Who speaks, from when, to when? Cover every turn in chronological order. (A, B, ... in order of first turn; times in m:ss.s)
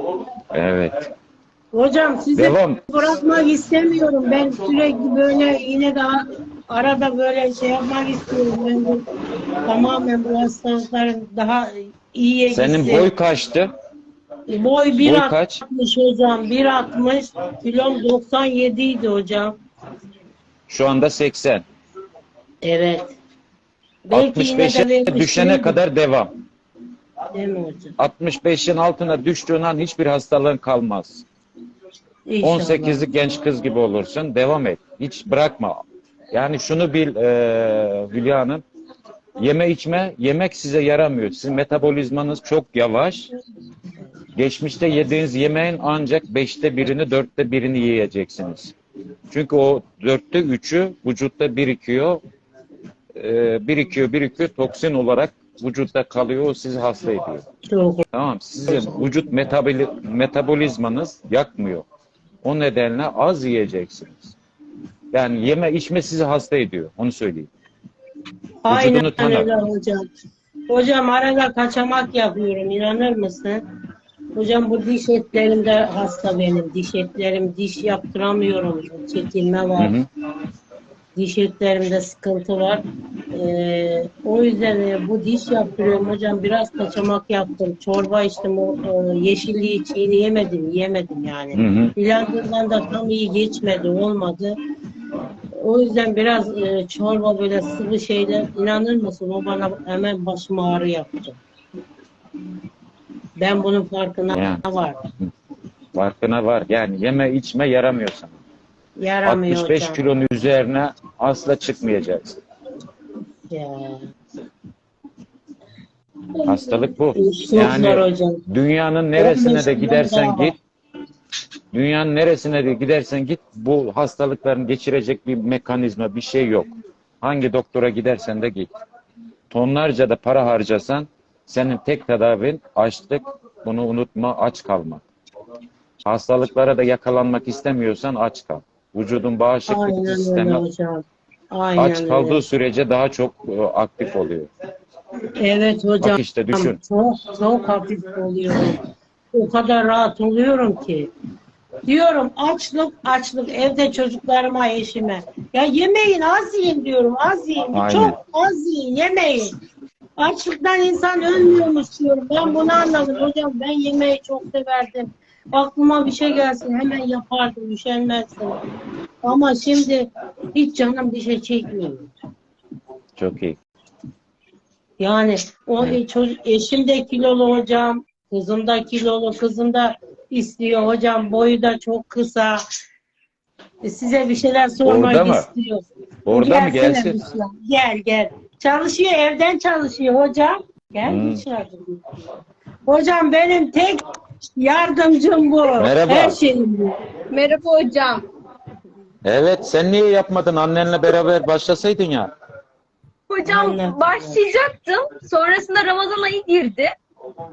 0:00.5-0:01.1 A
0:01.7-0:09.1 B
0:02.3-0:02.8 A
0:09.6-0:13.1 B
0:12.5-0:13.7 A
0:14.5-0:19.6 B
0:15.0-0:15.6 A
0:20.7-0:21.6 A
0:22.6-0:23.1 B
0:24.0-0:25.8 B
0:24.1-0:26.4 A
0:27.3-0:28.0 B
0:28.0-0:31.2 A
0:32.3-0:33.0 B
0:32.4-0:35.8 A
0:36.3-0:38.6 A
0:39.4-0:43.3 A
0:44.3-0:48.7 A
0:49.3-0:52.2 A
0:53.1-0:57.4 A
0:57.7-0:58.0 B
0:58.1-1:01.8 A
0:58.6-0:59.5 B
1:02.4-1:04.4 A
1:05.1-1:07.5 A
1:08.6-1:10.1 B
1:08.7-1:09.5 A
1:10.7-1:13.6 B
1:14.3-1:19.9 B
1:19.8-1:20.1 A
1:21.1-1:34.6 B
1:31.5-1:31.9 A
1:35.5-1:41.4 B
1:43.4-1:45.0 B
1:44.3-1:44.6 A
1:45.9-1:48.4 A
1:49.0-1:50.0 B
1:49.2-1:52.4 A
1:53.5-1:54.0 B
1:56.4-2:00.6 A
1:57.1-1:58.4 B
1:59.2-2:00.5 B
2:01.7-2:06.7 A
2:07.2-2:08.7 A
2:09.5-2:15.0 A
2:16.0-2:20.6 A
2:19.7-2:22.4 B
2:21.8-2:24.5 A
2:25.3-2:31.1 B
2:26.0-2:26.8 A
2:31.8-2:39.5 B
2:37.7-2:38.2 A
2:40.2-2:48.6 B
2:49.2-2:52.1 B
2:53.2-2:53.6 A
2:55.0-3:02.6 B
3:03.8-3:12.0 B
3:04.8-3:05.5 A
3:06.2-3:07.2 A
3:11.1-3:11.4 A
3:12.9-3:14.0 B
3:14.6-3:17.0 B
3:15.8-3:16.4 A
3:17.3-3:18.2 C
3:19.2-3:22.3 A
3:23.3-3:26.9 C
3:23.4-3:24.4 B